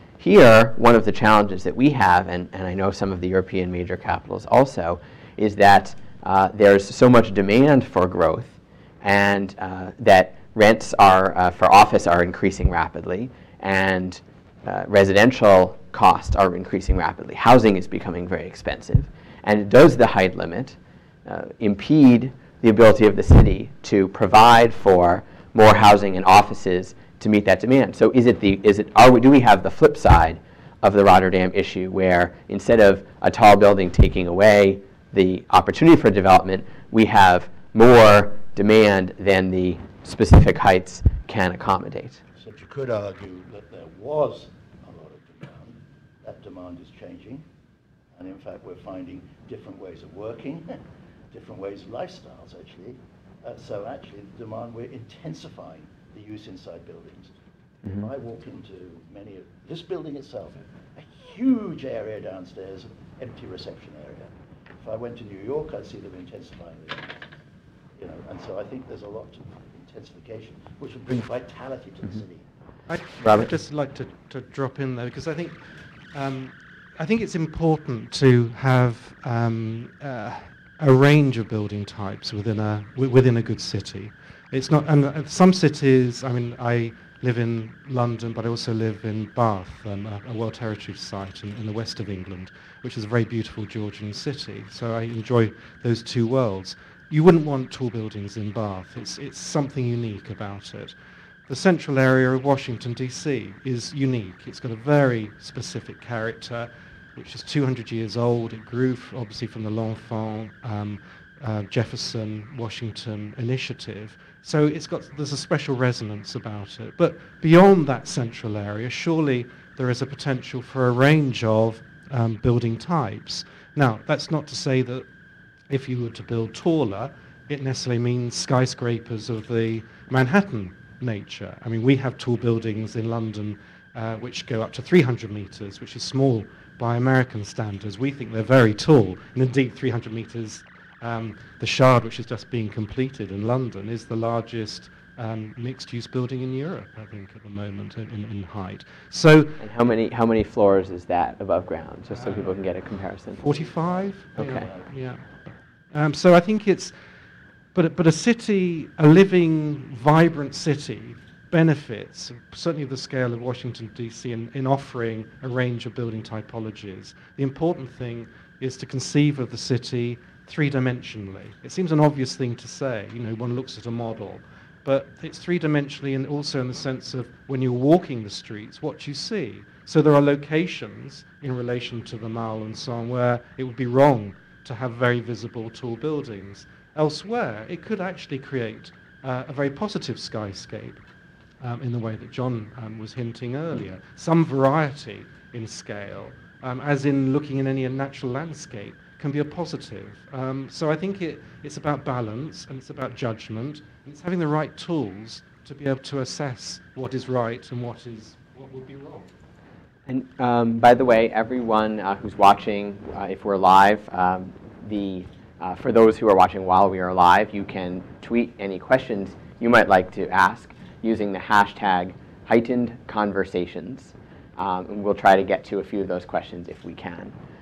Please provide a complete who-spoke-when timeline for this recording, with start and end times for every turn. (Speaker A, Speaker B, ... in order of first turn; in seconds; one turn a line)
Speaker A: 0.2-42.2
Speaker B: 42.4-47.4
Speaker B: 48.1-50.8
Speaker B: 51.3-57.3
Speaker B: 57.9-67.2
Speaker B: 68.0-72.5
Speaker C: 72.9-75.6
Speaker A: 73.2-73.5
Speaker C: 76.1-100.9
Speaker C: 101.5-125.0
Speaker C: 125.7-149.6
Speaker A: 149.6-153.4
Speaker C: 152.1-152.5
Speaker C: 153.4-155.2
Speaker B: 153.4-154.9
Speaker A: 154.4-154.7
Speaker C: 155.9-156.9
Speaker C: 157.8-191.0
Speaker C: 191.6-209.3
Speaker A: 210.1-227.4